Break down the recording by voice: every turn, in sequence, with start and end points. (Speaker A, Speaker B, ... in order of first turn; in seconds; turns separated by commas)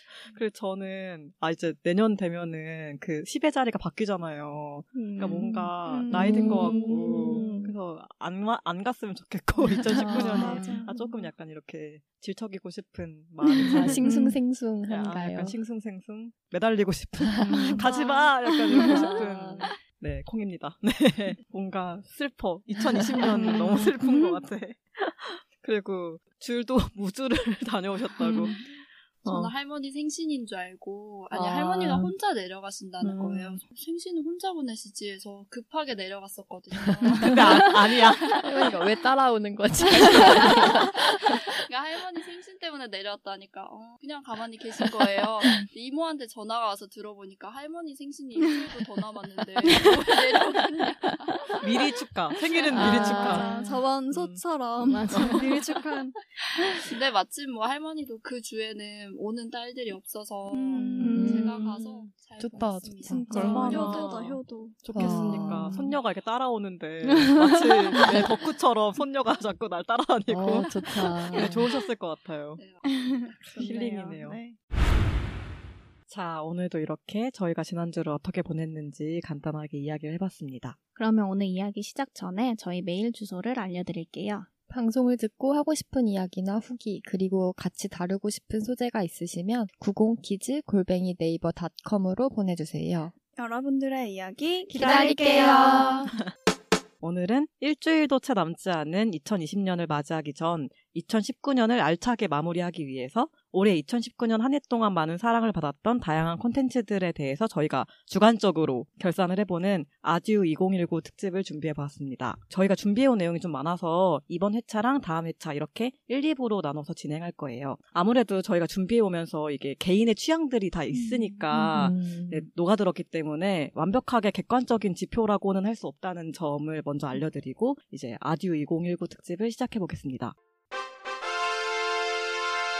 Speaker A: 0.2-14.1, Speaker B: 5.0-5.3, Speaker B: 5.8-7.5, Speaker C: 6.2-7.7, Speaker D: 6.2-7.5, Speaker D: 10.0-10.6, Speaker B: 10.0-11.0, Speaker C: 10.1-10.7, Speaker B: 13.4-14.2, Speaker C: 13.7-15.6, Speaker D: 14.0-14.3, Speaker A: 14.9-28.6, Speaker D: 17.4-17.9, Speaker B: 17.6-18.1, Speaker D: 18.7-19.2, Speaker B: 18.8-19.2, Speaker C: 19.0-19.6, Speaker B: 23.4-24.4, Speaker E: 29.2-37.8, Speaker A: 29.2-29.5, Speaker C: 31.3-32.1, Speaker A: 33.0-33.6, Speaker A: 37.2-38.3, Speaker C: 38.4-41.6, Speaker E: 41.5-51.9, Speaker B: 48.4-48.8, Speaker B: 49.6-50.9, Speaker A: 51.6-53.5, Speaker D: 52.7-53.8, Speaker B: 52.7-56.1, Speaker A: 54.1-54.4, Speaker D: 54.8-55.8, Speaker D: 56.6-56.8, Speaker E: 56.8-64.2, Speaker B: 60.5-61.5, Speaker D: 61.0-61.4, Speaker C: 61.1-61.8, Speaker C: 62.4-63.9, Speaker B: 63.1-65.5, Speaker A: 63.3-72.6, Speaker C: 64.9-65.9, Speaker D: 67.1-68.1, Speaker C: 70.3-71.7, Speaker B: 71.3-71.7, Speaker E: 72.5-74.0, Speaker B: 72.9-74.6, Speaker A: 73.5-74.4, Speaker A: 76.1-80.8, Speaker D: 81.0-84.5, Speaker C: 84.7-93.1, Speaker B: 93.3-96.1, Speaker C: 94.7-96.1, Speaker A: 97.0-130.3, Speaker B: 120.9-121.3, Speaker C: 121.5-122.5